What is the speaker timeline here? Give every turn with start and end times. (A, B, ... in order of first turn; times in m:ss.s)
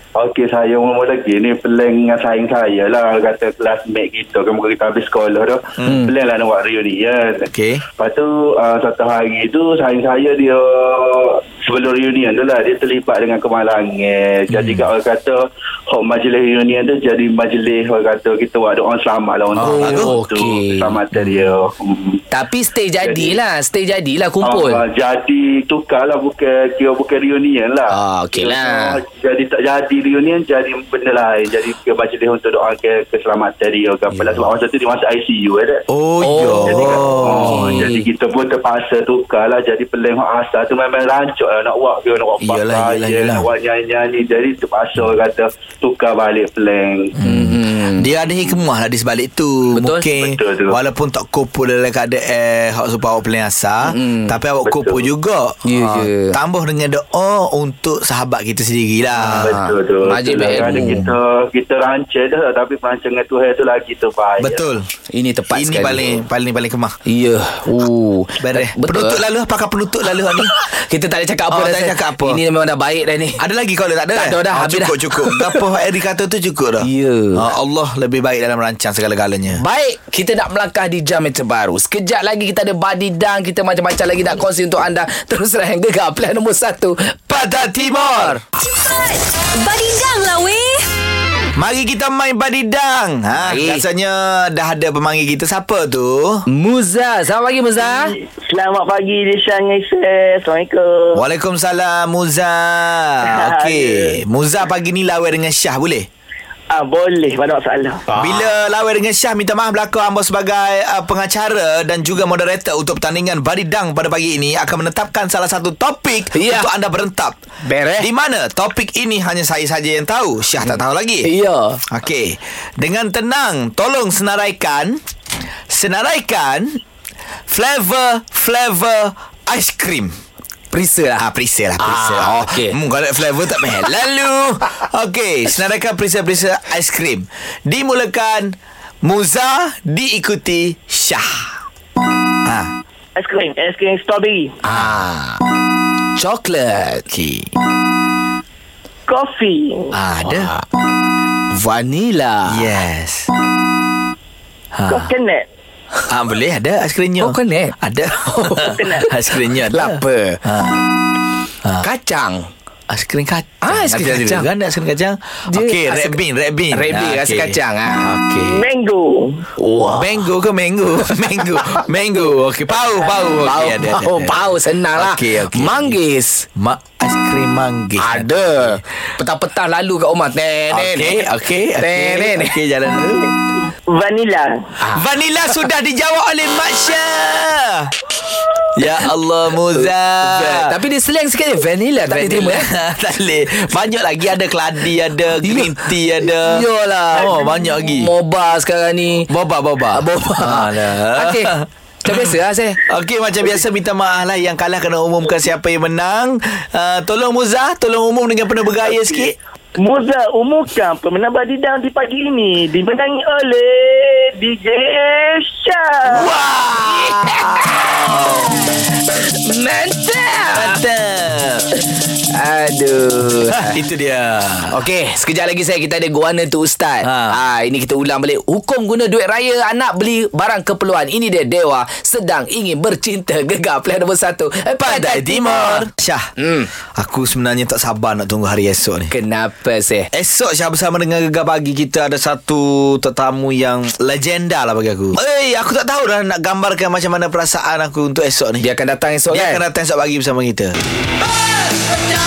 0:00.2-0:22.2 A
0:05.8-0:06.1 B
0:07.5-0:07.8 B
0:14.5-0:14.9 B
0:19.6-0:21.0 C
0:19.6-0:20.2 B
0:22.3-0:24.8 C
0:23.0-0:23.4 A
0:24.4-0:35.8 A
0:27.9-0:29.0 C
0:34.1-0:34.5 C
0:35.9-0:37.9 B
0:36.2-0:38.0 C
0:36.6-0:47.1 A
0:42.4-0:43.5 B
0:47.2-0:59.6 B
0:47.2-0:48.1 C
0:49.7-0:50.1 C
0:50.1-0:50.8 A
0:53.8-0:54.4 C
0:54.6-0:55.0 A
0:55.6-0:56.4 C
0:59.2-1:01.1 C
0:59.4-1:04.6 A
1:04.4-1:04.9 B
1:05.1-1:06.2 C
1:05.5-1:07.0 B
1:07.1-1:09.2 C
1:08.4-1:10.5 B
1:10.3-1:13.4 C
1:11.5-1:12.4 B
1:13.4-1:19.6 B
1:14.1-1:15.6 C
1:16.8-1:17.4 C
1:19.5-1:28.4 C
1:27.3-1:28.4 B
1:28.6-1:30.9 D
1:31.6-1:36.4 B
1:33.4-1:33.8 C
1:36.5-1:38.2 C
1:38.3-1:41.2 E
1:41.1-1:46.1 B
1:43.3-1:44.1 E
1:46.7-1:48.1 E
1:48.1-1:48.5 C
1:48.2-1:57.4 B
1:56.3-1:56.7 C
1:57.6-1:58.1 C
1:58.0-2:01.3 B
2:00.6-2:01.8 C
2:01.9-2:05.0 B
2:05.7-2:06.8 B
2:07.5-2:10.2 B
2:10.7-2:11.3 C
2:11.2-2:21.6 B
2:11.8-2:12.8 C
2:22.4-2:22.7 B
2:23.2-2:24.6 E
2:24.6-2:25.4 C
2:24.7-2:24.9 B
2:26.2-2:27.1 C
2:27.1-2:27.5 B
2:29.1-2:30.0 E
2:29.9-2:30.5 B
2:30.3-2:30.6 C
2:31.5-2:32.7 C
2:32.5-2:33.3 B
2:34.8-2:35.1 B
2:34.9-2:35.5 E
2:36.1-2:40.8 B
2:37.2-2:38.8 C
2:38.6-2:39.1 E
2:39.7-2:40.4 C
2:41.8-2:42.5 C
2:42.9-2:48.6 B
2:43.6-2:44.5 C
2:45.5-2:46.2 C
2:46.7-2:48.1 C
2:48.4-2:49.4 E
2:49.6-2:50.2 C
2:49.9-2:56.0 B
2:51.2-2:51.8 C
2:53.4-2:56.5 C
2:56.6-2:58.8 B
2:58.0-3:01.2 C
3:00.7-3:03.3 B
3:01.8-3:02.6 C
3:03.9-3:04.7 E
3:04.8-3:05.1 C
3:04.9-3:07.9 B
3:08.8-3:10.7 B
3:09.8-3:12.7 C
3:12.1-3:18.1 B
3:15.4-3:19.3 C
3:19.3-3:22.4 B
3:19.9-3:21.5 C
3:22.0-3:22.8 C
3:22.9-3:29.4 B
3:29.8-3:36.3 E
3:36.1-3:38.9 B
3:36.3-3:40.8 C
3:40.5-3:41.7 B
3:42.3-3:43.8 C
3:43.5-3:44.7 B
3:44.7-3:56.7 C
3:47.0-3:47.4 B
3:54.8-3:56.3 B
3:57.0-3:59.1 B
3:59.1-4:00.1 C
4:00.1-4:08.7 B
4:08.6-4:09.6 C
4:09.3-4:10.8 B